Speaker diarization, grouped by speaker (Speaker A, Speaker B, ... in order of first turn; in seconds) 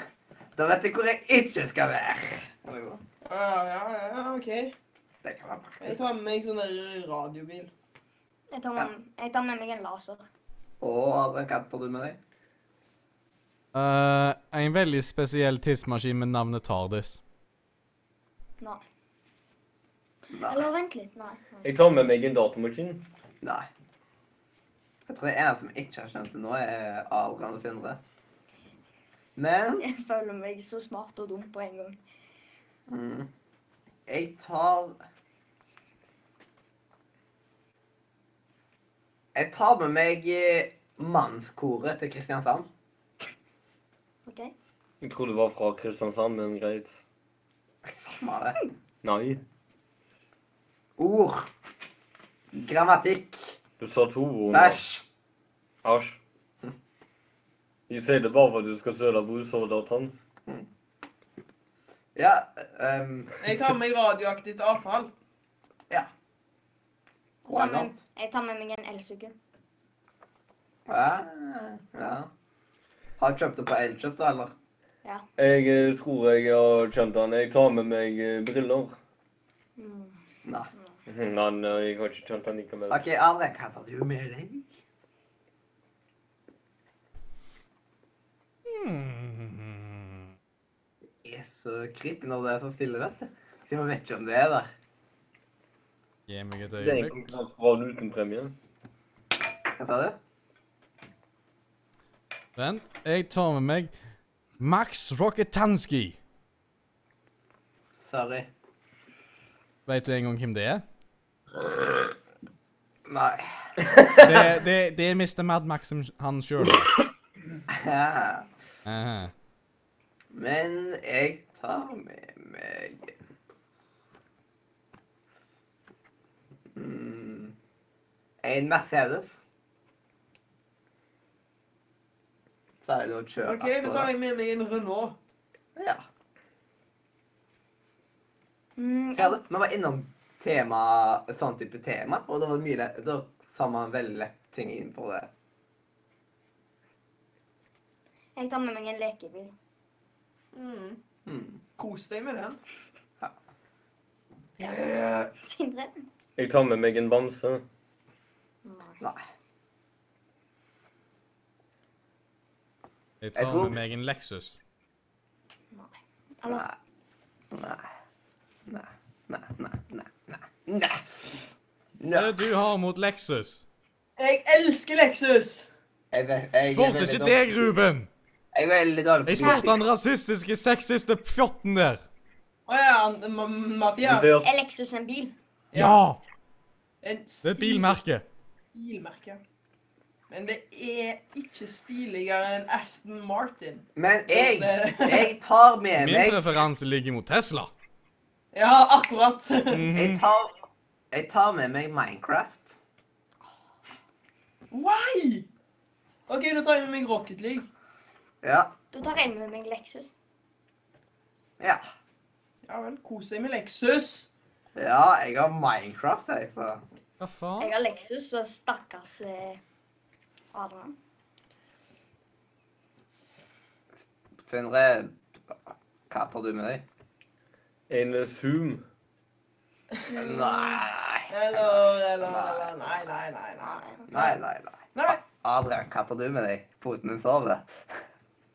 Speaker A: 0.6-3.0, 5.2-6.0, 10.8-12.2, 20.3-20.7, 23.4-23.7, 25.1-28.0, 29.4-29.9, 32.9-33.3, 34.1-35.0, 39.3-42.7, 47.8-48.6, 51.0-51.5, 52.5-53.6, 54.5-55.0, 62.1-63.4, 67.5-68.0, 70.9-72.3, 73.2-74.5, 82.9-84.7, 91.2-94.7, 99.7-100.2, 108.0-108.5, 111.6-112.1, 113.1-113.5, 117.7-118.5, 120.3-123.1, 126.7-127.5, 128.4-129.4, 132.8-134.1, 135.8-136.0, 139.2-145.3, 151.2-151.6, 154.6-155.3, 163.3-163.8, 166.4-166.7, 167.5-167.8, 168.7-171.4, 172.0-172.5, 176.1-177.7, 178.5-179.8, 193.9-196.5, 199.9-200.5, 201.1-202.8, 208.4-208.7, 214.8-216.8, 224.4-225.5, 226.1-226.8, 230.1-233.1, 234.1-237.7
Speaker B: 3.2-4.7, 5.8-7.7, 63.4-65.1, 133.4-135.2, 150.5-151.0, 151.8-152.6, 174.2-175.7, 182.7-184.3, 185.7-186.0, 187.0-188.0, 188.7-189.4, 190.3-195.3, 198.5-199.9, 204.7-205.5, 206.3-207.7, 212.7-214.3, 231.3-234.4, 234.9-235.2
Speaker C: 8.5-10.2, 20.4-21.6, 29.8-32.0, 44.2-44.5, 67.4-69.3, 79.8-80.2, 138.8-139.3, 148.3-149.5, 155.4-156.1, 158.6-159.0, 165.7-166.6, 184.4-185.3, 208.9-210.1, 217.6-219.6, 220.5-220.9, 230.1-230.8
Speaker D: 13.7-17.2, 88.7-90.2, 96.3-97.3, 102.5-103.9, 104.6-106.2, 109.8-110.8, 114.2-116.9, 118.8-119.3, 163.2-164.6, 172.1-173.6, 176.7-178.1, 179.2-182.0, 185.7-186.2, 187.4-188.2, 196.0-197.7, 199.7-200.2, 217.2-217.7
Speaker E: 21.6-23.1, 45.0-47.0, 49.0-49.4, 53.8-54.8, 55.8-56.2, 57.9-60.1, 75.4-79.0, 81.1-83.0, 96.8-98.5, 156.4-157.6, 184.0-184.5, 227.9-228.8